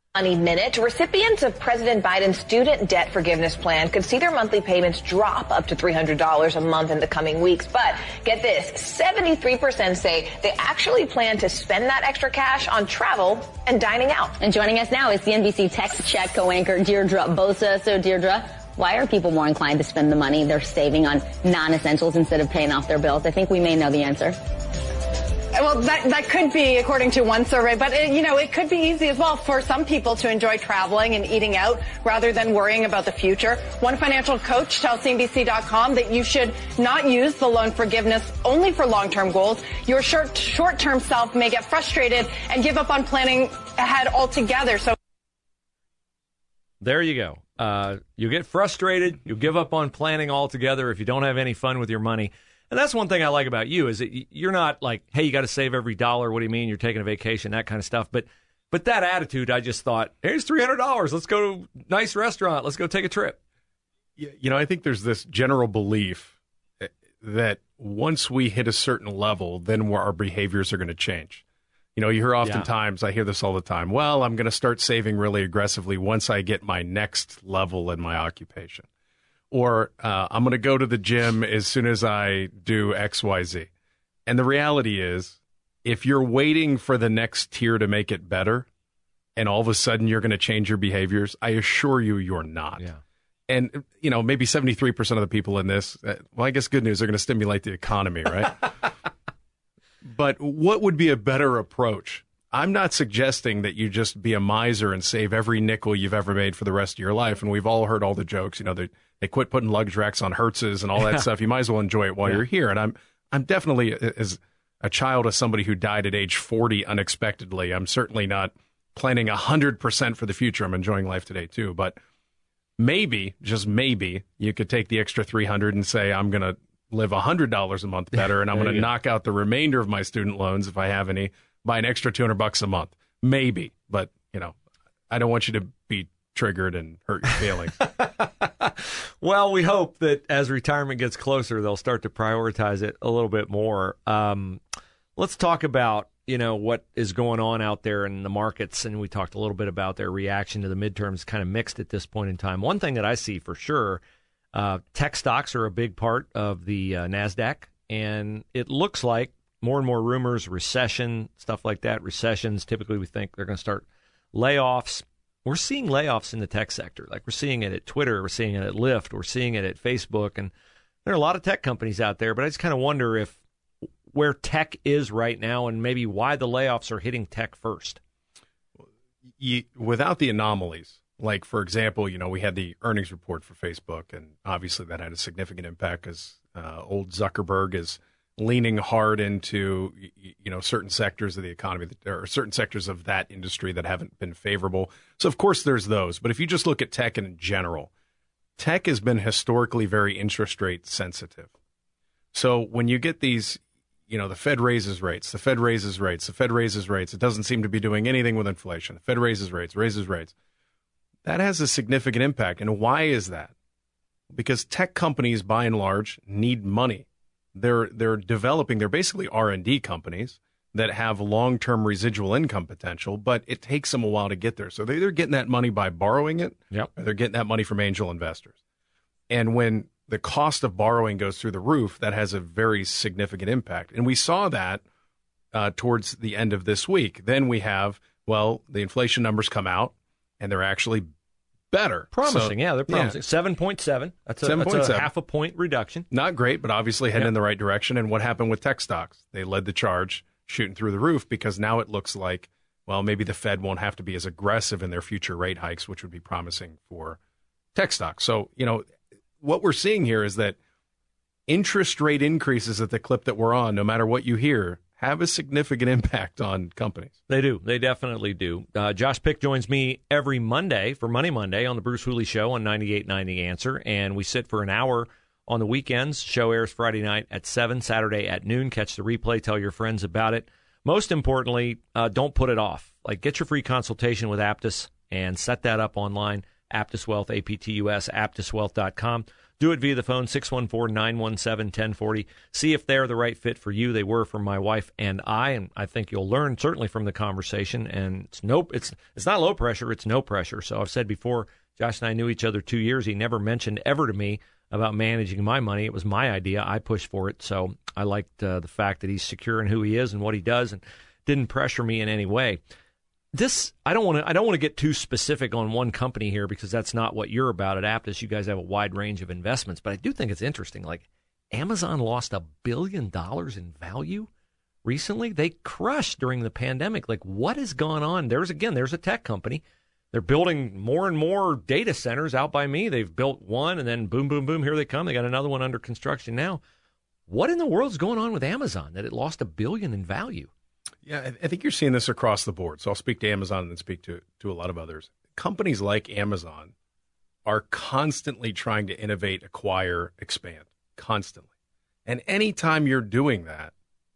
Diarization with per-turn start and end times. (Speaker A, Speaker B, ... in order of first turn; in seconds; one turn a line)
Speaker A: 0.1-14.4
Speaker B: 14.4-24.4
Speaker C: 25.5-45.0
Speaker D: 46.8-63.4
Speaker E: 64.2-71.4
Speaker E: 72.0-78.9
Speaker D: 72.4-72.7
Speaker E: 79.5-83.7
Speaker E: 84.2-88.7
Speaker E: 89.3-92.9
Speaker E: 93.5-98.7
Speaker E: 100.0-122.0
Speaker D: 111.0-111.2
Speaker E: 122.8-134.6
Speaker D: 128.5-128.9
Speaker E: 135.1-137.7
Speaker D: 137.8-144.6
Speaker D: 145.2-154.0
Speaker D: 154.5-170.5
Speaker D: 171.0-173.4
Speaker D: 174.1-178.0
Speaker E: 179.4-197.9
Speaker E: 198.6-201.5
Speaker E: 202.3-210.3
Speaker E: 211.2-213.5
Speaker E: 214.3-228.6
Speaker E: 229.3-234.8
Speaker E: 235.5-241.1
Speaker E: 241.7-243.2
Speaker D: 242.1-246.1
Speaker E: 244.4-245.1
Speaker E: 246.1-257.2
Speaker E: 257.7-258.9
Speaker E: 259.4-260.6
Speaker E: 261.5-267.1
Speaker D: 267.3-312.6
Speaker D: 313.3-324.3
Speaker D: 324.8-329.6
Speaker D: 330.1-336.6
Speaker D: 337.3-340.5
Speaker E: 341.0-346.7
Speaker E: 347.4-351.5
Speaker E: 352.1-353.7